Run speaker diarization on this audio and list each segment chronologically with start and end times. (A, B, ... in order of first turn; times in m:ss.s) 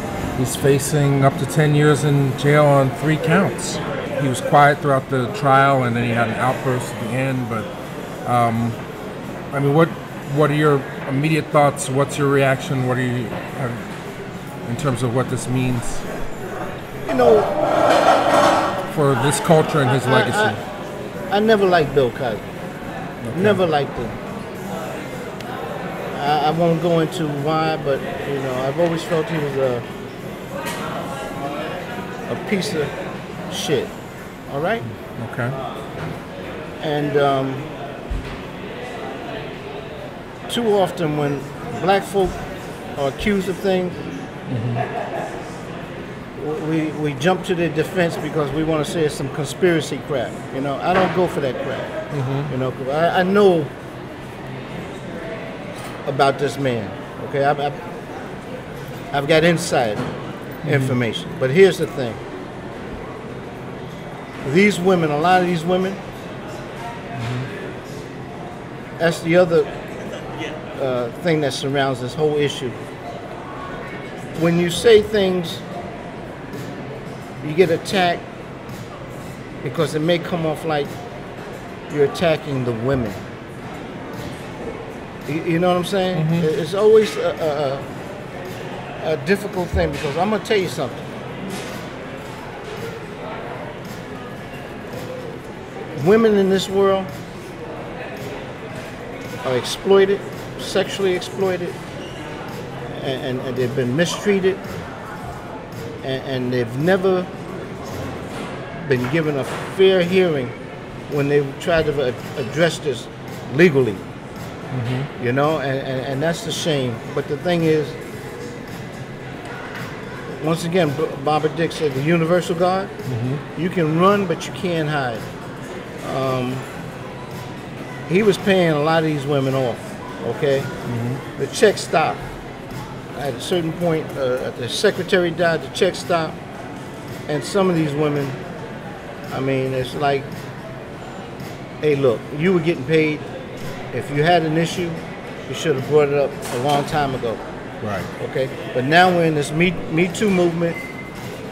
0:00.4-0:07.7 A
0:08.2-0:08.8 A
0:09.5-0:13.8 A
0:14.6-0:16.0 A
0:17.0-0:17.5 B
0:18.9-0:20.6 A
0:19.8-0:20.6 B
0:21.3-0:22.4 B
0:23.2-0:23.6 A
0:23.3-0:24.2 B
0:26.1-0:29.8 B
0:32.3-0:32.9 B
0:33.5-0:33.9 B
0:34.5-0:34.8 B
0:34.8-0:35.5 A
0:36.8-0:37.7 B
0:40.5-0:42.4 B
0:43.0-0:44.0 B
0:44.5-0:44.8 A
0:46.4-0:51.9 B
0:52.1-0:52.5 A
0:52.5-0:53.7 B
0:56.0-0:57.8 B
0:59.1-1:00.0 B
1:00.6-1:01.0 A
1:00.6-1:02.2 B
1:04.4-1:06.0 B
1:07.1-1:07.5 A
1:09.0-1:09.7 B
1:10.7-1:12.8 B
1:14.3-1:15.6 B
1:17.4-1:18.2 B
1:19.6-1:20.9 B
1:21.9-1:23.2 B
1:25.2-1:27.8 B
1:26.1-1:26.5 A
1:29.0-1:31.0 B
1:36.0-1:37.1 B
1:39.4-1:41.8 B
1:42.9-1:44.6 B
1:46.0-1:47.3 B
1:48.8-1:50.5 B
1:51.1-1:54.0 B
1:54.7-1:55.1 A
1:55.2-1:58.0 B
2:00.4-2:02.9 B
2:03.0-2:03.4 A
2:03.5-2:05.2 B
2:06.0-2:06.6 B
2:08.1-2:10.7 B
2:10.8-2:11.2 A
2:11.4-2:12.2 B
2:13.1-2:16.4 B
2:17.3-2:18.4 B
2:19.3-2:20.3 B
2:21.8-2:23.3 B
2:23.9-2:27.4 B
2:27.8-2:28.1 A
2:28.2-2:30.8 B